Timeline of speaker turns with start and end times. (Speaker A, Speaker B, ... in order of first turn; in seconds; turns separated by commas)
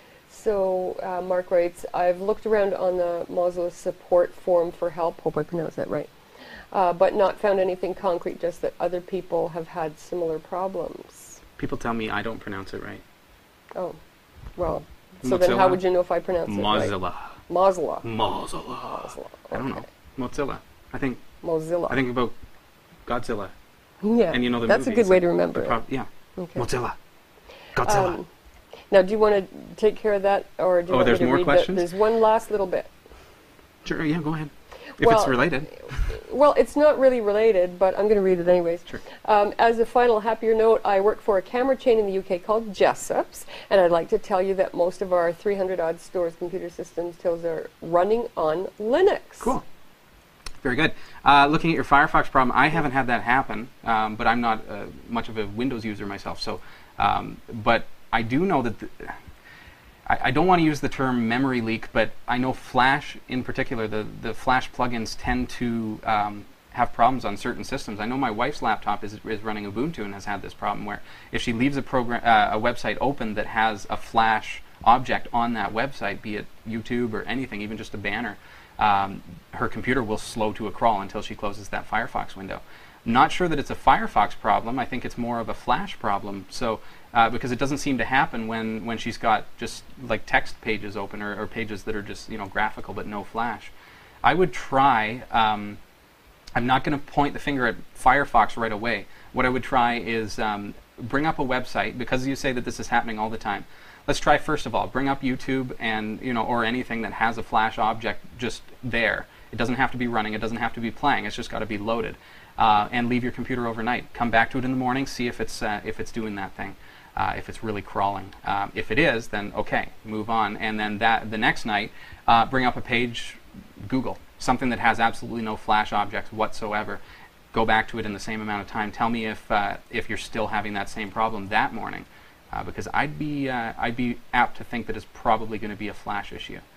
Speaker A: 0.3-6.1, Speaker A: 6.7-11.4, Speaker B: 11.6-13.0, Speaker A: 14.6-16.9, Speaker B: 15.2-15.8, Speaker B: 16.5-17.3, Speaker A: 17.5-18.1, Speaker B: 18.0-21.2, Speaker A: 19.0-19.8, Speaker A: 21.4-22.0, Speaker B: 21.9-22.3, Speaker B: 23.1-23.5, Speaker A: 24.0-25.8, Speaker B: 24.3-27.0, Speaker A: 26.4-26.6, Speaker B: 27.8-28.2, Speaker A: 27.8-28.3, Speaker A: 28.9-32.9, Speaker B: 30.9-31.9, Speaker B: 33.9-36.1, Speaker A: 35.0-35.4, Speaker A: 35.9-49.5, Speaker B: 50.6-59.2, Speaker B: 60.1-93.7, Speaker B: 94.2-95.8, Speaker B: 96.6-127.0, Speaker B: 127.5-136.6